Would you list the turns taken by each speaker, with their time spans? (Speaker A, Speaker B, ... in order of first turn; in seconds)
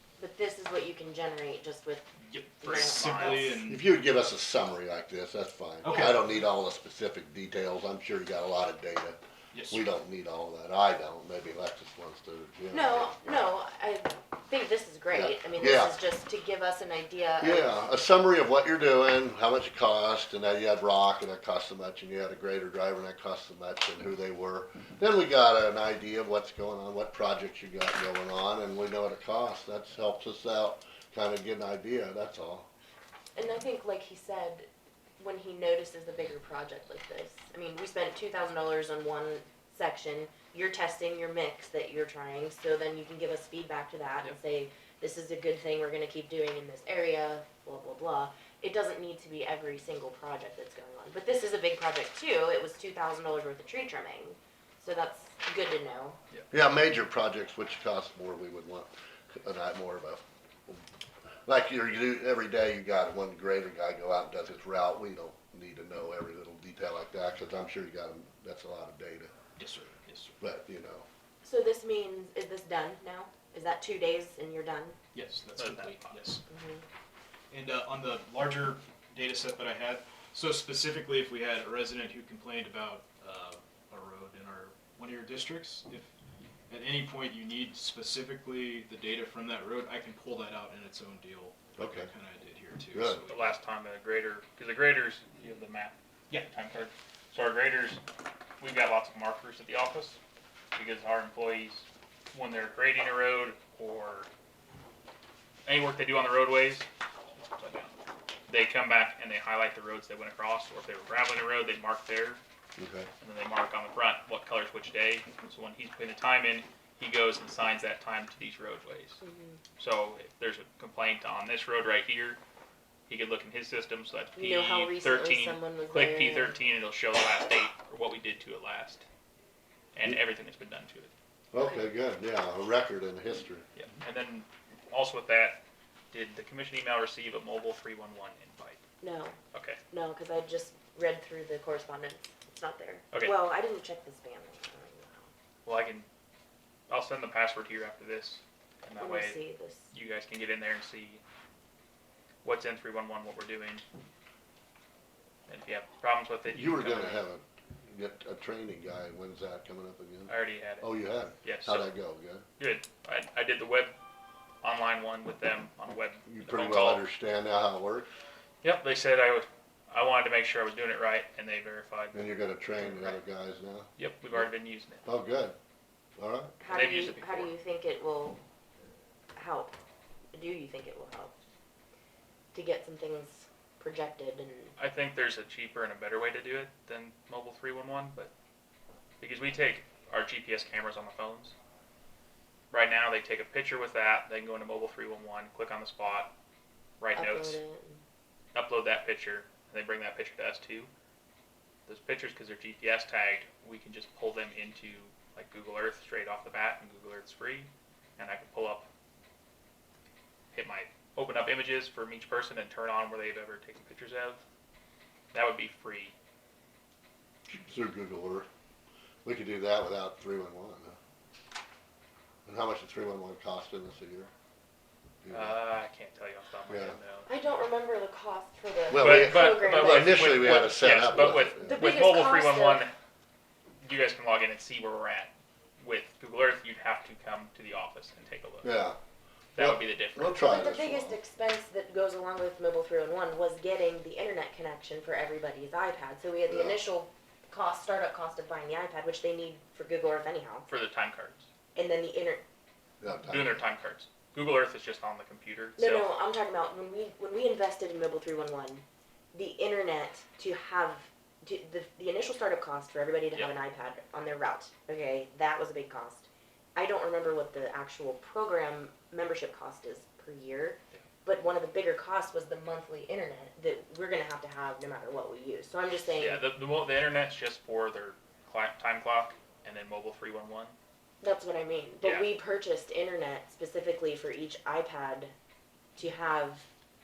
Speaker A: 0.2-2.1, 2.6-3.6, 12.7-17.7, 33.3-56.2, 71.4-75.0, 76.5-76.8, 119.2-119.6, 124.3-126.6, 139.0-139.4, 139.9-145.3, 149.0-149.9, 176.6-178.4, 179.3-179.7, 180.3-181.3, 182.5-184.7, 197.1-198.0, 227.3-230.7, 231.6-232.9, 240.4-250.7, 251.7-252.4, 255.8-276.4, 281.2-285.3, 285.9-286.7
Speaker B: 2.3-3.9, 5.8-6.3, 9.5-9.8, 69.6-70.4, 75.1-76.4, 77.5-86.1, 86.7-93.5
Speaker C: 2.6-3.4, 75.5-76.3, 93.3-98.0, 98.6-100.2, 100.7-104.3, 105.7-106.9, 107.5-107.9, 108.5-112.4, 113.2-119.2, 119.8-122.4, 123.1-129.1, 129.9-131.1, 133.7-135.6, 136.1-138.8, 139.5-139.8, 145.6-146.1, 146.9-151.2, 152.4-153.8, 155.5-157.3, 160.3-161.9, 162.6-163.9, 164.6-167.0, 168.6-173.2, 174.0-175.1, 176.7-177.5, 184.8-188.3, 189.2-191.5, 192.7-196.3, 197.0-197.6, 198.5-200.9, 201.9-208.9, 210.5-214.4, 215.3-216.1, 225.3-227.3, 229.0-232.9, 233.8-238.7, 239.5-240.4, 250.7-251.5, 253.3-256.1, 276.2-280.7, 282.0-282.3
Speaker D: 3.6-13.2, 15.1-15.9, 17.4-32.7, 56.5-60.8, 61.5-69.3, 70.4-71.0, 91.8-92.1, 92.9-93.2, 112.8-113.1, 131.5-133.6, 156.5-162.4, 166.2-168.1, 172.1-174.4, 175.0-175.6, 176.2-176.5, 217.5-218.5, 219.2-221.0, 222.4-224.3, 225.2-225.6, 226.7-227.0, 228.9-231.8, 238.6-239.0, 239.6-241.2, 246.5-246.8, 253.0-253.6